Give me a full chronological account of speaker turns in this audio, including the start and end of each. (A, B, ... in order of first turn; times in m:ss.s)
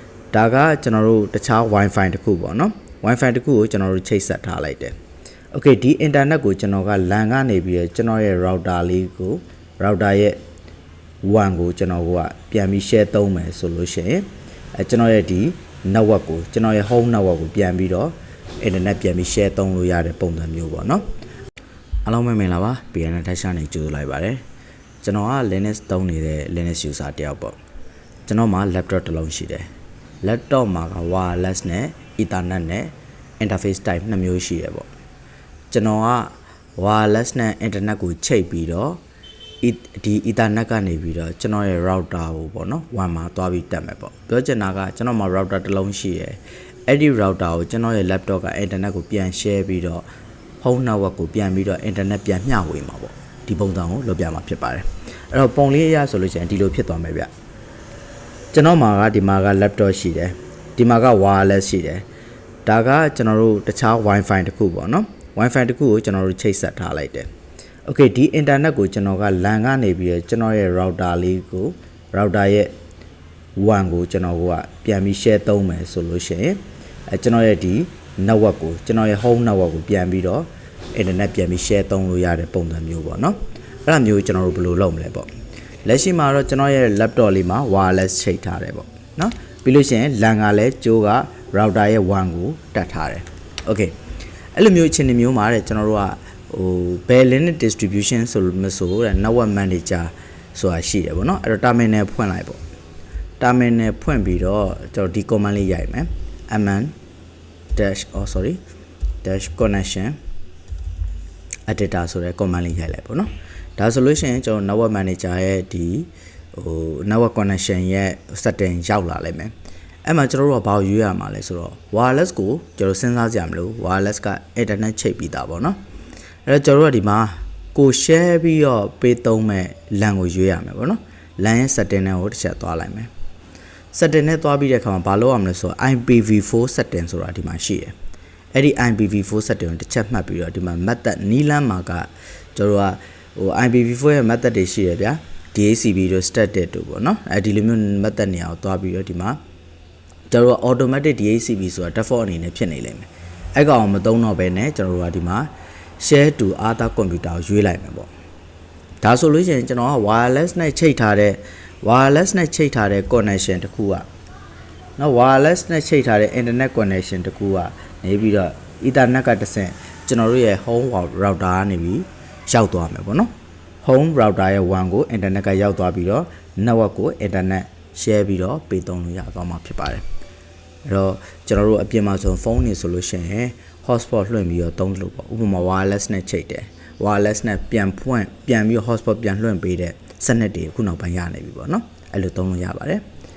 0:00.3-0:04.9 A
0:05.5-0:10.4 A
0:11.2-0:14.3 A
0:14.8-0:21.0 A
0:22.0-0:24.4 A
0:25.0-0:27.6 A
0:28.3-0:29.7 A
0:30.2-0:34.9 A
0:35.7-0:39.0 A
0:39.6-0:50.0 A
0:50.6-0:57.3 A
0:58.5-1:02.0 A
1:02.7-1:07.3 A
1:07.9-1:12.7 A
1:13.6-1:25.3 A
1:25.8-1:33.9 A
1:34.6-1:42.6 A
1:43.4-1:46.9 A
1:47.8-1:48.6 A
1:49.2-1:50.2 A
1:51.7-1:59.5 A
2:00.0-2:05.8 A
2:06.5-2:13.1 A
2:13.9-2:17.9 A
2:18.6-2:29.4 A
2:30.3-2:35.5 A
2:36.0-2:38.1 A
2:39.0-2:44.0 A
2:45.0-2:53.3 A
2:53.8-3:00.0 A
3:00.9-3:13.0 A